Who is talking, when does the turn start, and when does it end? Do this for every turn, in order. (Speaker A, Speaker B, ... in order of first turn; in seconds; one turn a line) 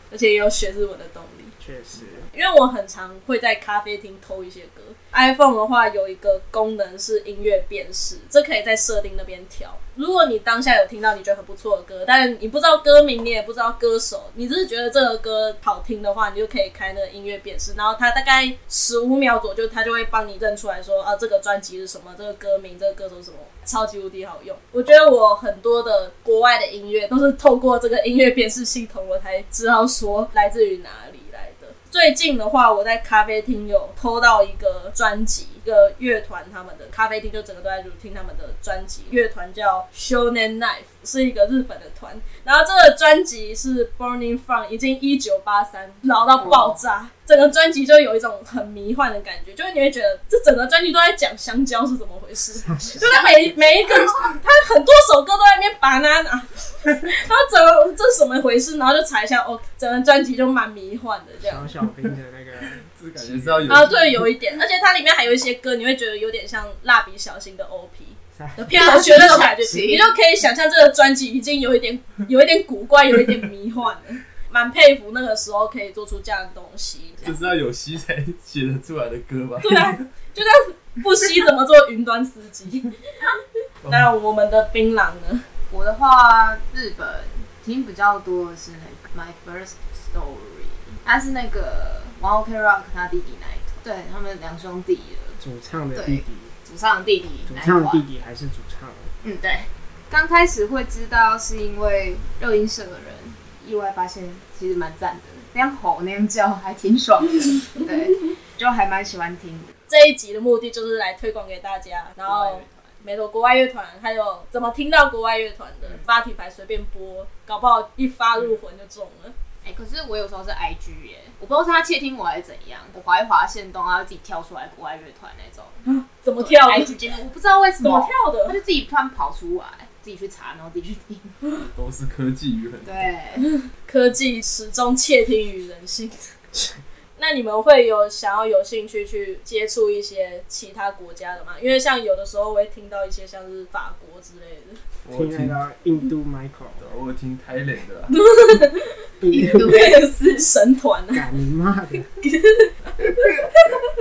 Speaker A: 0.1-1.5
Speaker B: 1.6-2.3
Speaker A: 2.3-61.7
Speaker C: 46.4-46.7
Speaker B: 52.5-53.1
Speaker C: 53.0-54.3
Speaker B: 61.4-63.9
Speaker D: 62.7-64.3
Speaker A: 63.7-77.3
Speaker B: 68.3-69.0
Speaker C: 68.7-70.1
Speaker D: 77.2-80.0
Speaker A: 79.6-85.4
Speaker C: 85.7-95.4
Speaker B: 95.4-96.5
Speaker C: 95.9-98.0
Speaker B: 97.4-99.1
Speaker C: 99.2-109.8
Speaker A: 109.9-119.3
Speaker C: 112.3-112.8
Speaker C: 119.6-125.8
Speaker A: 125.8-126.9
Speaker C: 126.4-131.4
Speaker A: 127.8-128.6
Speaker D: 131.6-133.0
Speaker C: 132.8-133.5
Speaker A: 133.4-136.3
Speaker A: 137.2-144.8
Speaker D: 145.0-145.6
Speaker B: 145.1-146.8
Speaker D: 146.8-148.2
Speaker A: 148.1-151.3
Speaker B: 149.2-149.8
Speaker C: 149.3-150.0
Speaker B: 151.1-152.1
Speaker A: 152.2-153.8